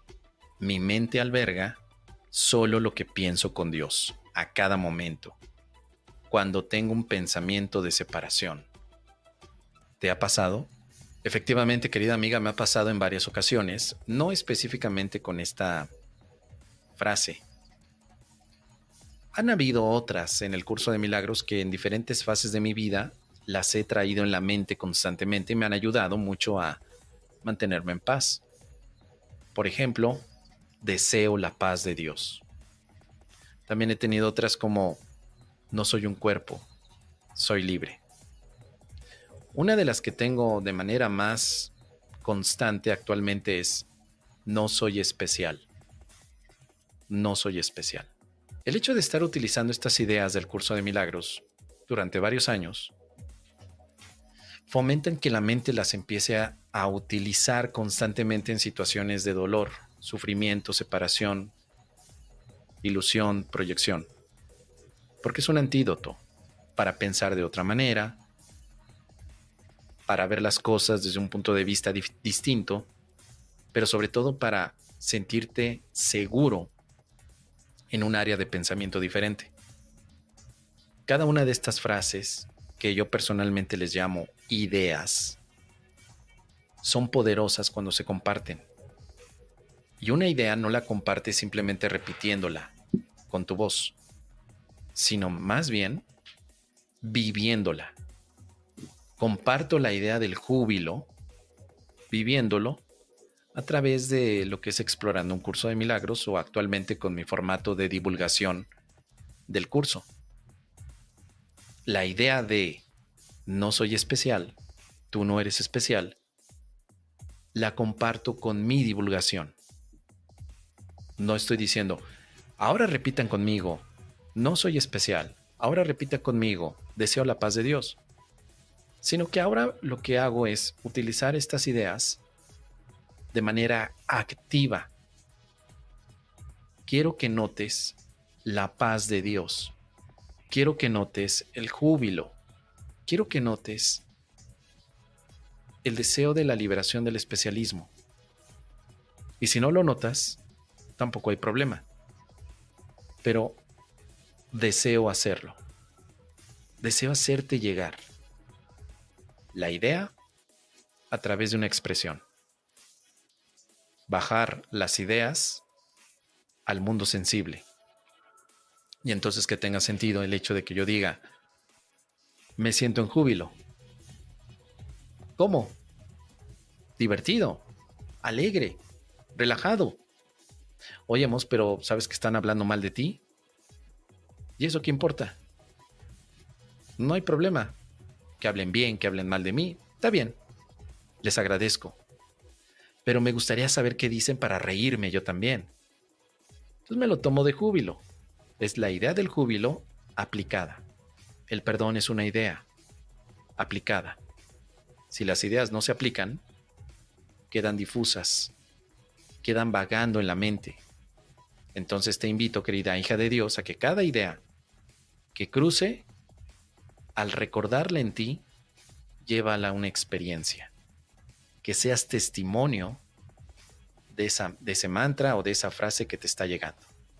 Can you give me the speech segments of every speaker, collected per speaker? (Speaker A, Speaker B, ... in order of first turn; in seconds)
Speaker A: 0.6-1.8, 2.3-5.4, 6.3-8.7, 10.0-10.7, 11.2-15.9, 17.0-17.4, 19.3-26.8, 27.4-28.4, 29.5-30.3, 30.8-32.4, 33.7-35.0, 35.7-36.7, 37.4-38.0, 39.5-43.9, 44.5-45.7, 47.1-48.1, 48.7-52.9, 54.7-61.5, 62.8-64.1, 65.2-66.2, 66.8-68.2, 70.1-72.9, 73.7-76.7, 77.9-79.5, 81.1-85.4, 86.8-88.7, 90.0-92.7, 93.3-94.0, 95.0-96.1, 97.0-98.0, 99.2-101.1, 102.1-102.8, 103.5-108.7, 109.5-110.1, 111.9-112.8, 113.5-114.6, 115.1-116.2, 117.5-119.5, 121.2-122.0, 122.6-128.0, 129.0-132.2, 133.3-134.9, 136.9-139.8, 140.5-142.4, 143.1-144.1, 145.8-147.9, 149.4-150.4, 151.0-151.9, 153.2-153.6, 154.5-155.6, 156.8-158.0, 159.5-160.1, 161.1-162.2, 164.1-165.6, 166.7-167.7, 169.0-171.2, 172.6-173.5, 175.4-175.8, 177.0-177.7, 178.2-178.8, 179.3-180.0, 181.1-183.2, 184.6-185.4, 187.0-187.8, 188.4-190.4, 191.2-192.0, 193.1-195.7, 196.8-198.0, 198.6-200.8, 201.5-202.7, 203.6-204.2, 205.1-206.4, 207.5-208.5, 209.4-210.8, 211.7-214.4, 215.3-216.1, 217.2-218.4, 219.2-220.7, 221.6-223.0, 224.1-226.9